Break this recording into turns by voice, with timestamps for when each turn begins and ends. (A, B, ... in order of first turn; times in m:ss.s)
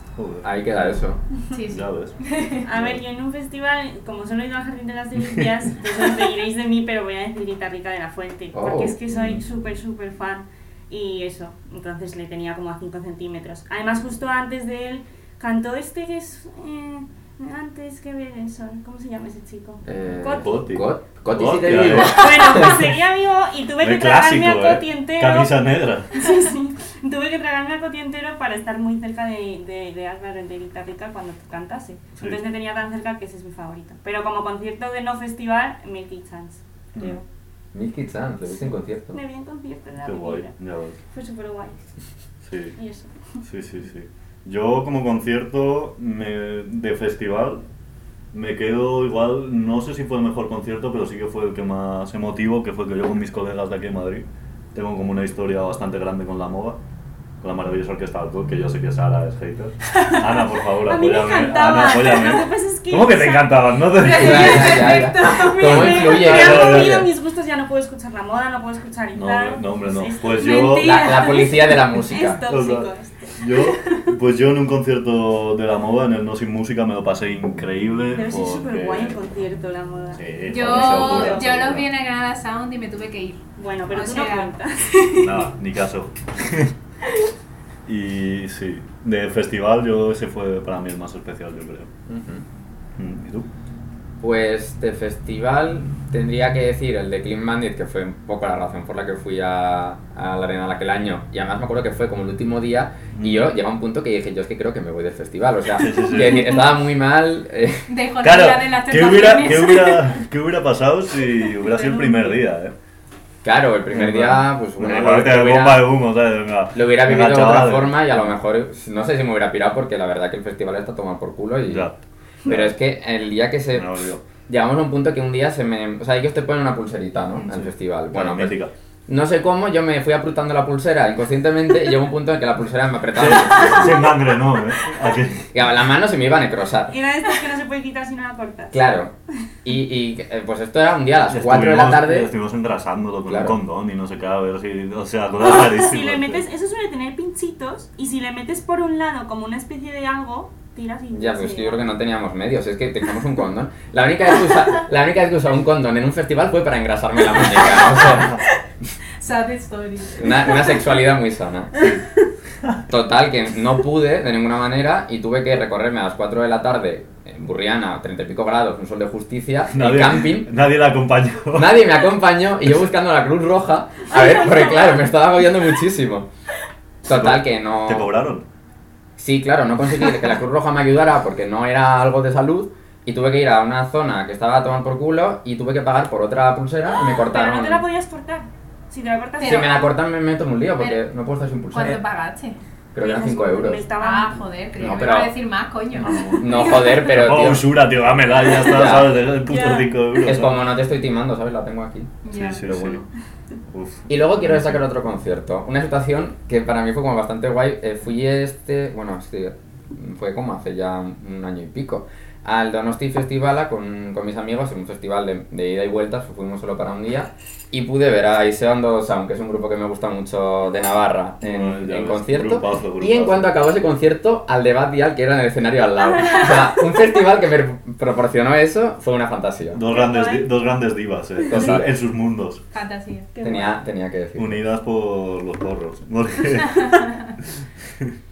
0:00.2-0:00.5 A
0:00.4-0:01.2 B
0:01.5-0:02.6 C
0:01.7-0:02.2 A
0:02.6-0:20.5 D
0:02.7-0:03.0 A
0:05.2-0:05.5 A
0:08.5-0:09.0 B
0:09.1-0:09.4 A
0:19.8-0:22.8 B
0:20.4-0:22.9 A
0:21.9-0:25.5 D
0:23.8-0:26.2 A
0:26.1-0:37.2 D
0:36.9-0:37.2 A
0:37.7-0:39.2 B
0:39.1-0:40.5 D
0:40.0-0:41.0 A
0:41.1-0:41.8 D
0:42.4-0:42.8 A
0:42.8-0:43.2 D
0:43.4-0:47.6 A
0:48.3-0:56.8 A
0:57.4-1:04.9 A
1:00.8-1:03.7 D
1:03.9-1:06.2 C
1:04.1-1:07.0 B
1:04.6-1:13.7 D
1:05.6-1:07.1 A
1:09.1-1:11.1 A
1:10.3-1:11.7 C
1:10.8-1:12.4 B
1:12.5-1:19.2 A
1:18.1-1:21.6 D
1:20.1-1:21.8 A
1:20.5-1:25.3 C
1:23.6-1:25.0 D
1:25.2-1:26.7 A
1:27.8-1:31.9 A
1:32.1-1:32.4 B
1:33.0-1:33.5 A
1:34.2-1:47.9 B
1:43.1-1:43.5 A
1:45.8-1:46.6 A
1:47.9-1:50.2 C
1:48.2-1:52.7 A
1:51.6-1:52.4 D
1:53.4-1:55.9 B
1:53.9-1:58.3 A
1:56.7-2:01.9 B
2:01.6-2:02.7 A
2:02.4-2:03.9 B
2:03.7-2:04.2 A
2:04.5-2:08.5 B
2:07.4-2:08.7 A
2:09.1-2:14.1 B
2:13.1-2:15.5 A
2:15.5-2:17.0 B
2:16.9-2:18.8 D
2:18.7-2:19.1 B
2:19.6-2:22.3 B
2:21.3-2:26.4 A
2:23.3-2:23.6 B
2:25.4-2:31.8 D
2:31.1-2:38.3 B
2:38.1-2:38.4 A
2:39.2-2:40.6 C
2:40.2-2:41.8 B
2:42.9-2:50.5 B
2:49.7-2:51.8 A
2:51.5-2:56.3 B
2:54.1-2:55.1 D
2:57.0-2:58.1 B
2:57.1-2:58.4 A
2:59.2-3:07.8 B
3:07.0-3:09.8 D
3:09.4-3:09.8 C
3:09.4-3:12.0 B
3:11.7-3:12.6 C
3:12.9-3:13.8 B
3:13.0-3:14.4 D
3:14.0-3:17.1 C
3:14.8-3:15.3 B
3:16.0-3:20.6 A
3:16.4-3:17.7 B
3:18.5-3:19.2 B
3:19.4-3:20.0 D
3:20.2-3:23.0 B
3:22.2-3:22.6 C
3:22.3-3:23.0 A
3:23.7-3:24.8 A
3:24.1-3:49.8 B
3:41.4-3:43.6 A
3:46.1-3:46.7 D
3:49.7-3:52.6 A
3:49.9-3:50.5 D
3:51.5-3:51.8 D
3:51.5-3:51.9 B
3:52.7-3:53.3 C
3:53.3-3:53.8 D
3:53.4-3:54.6 B
3:54.4-3:57.1 A
3:56.8-3:57.3 C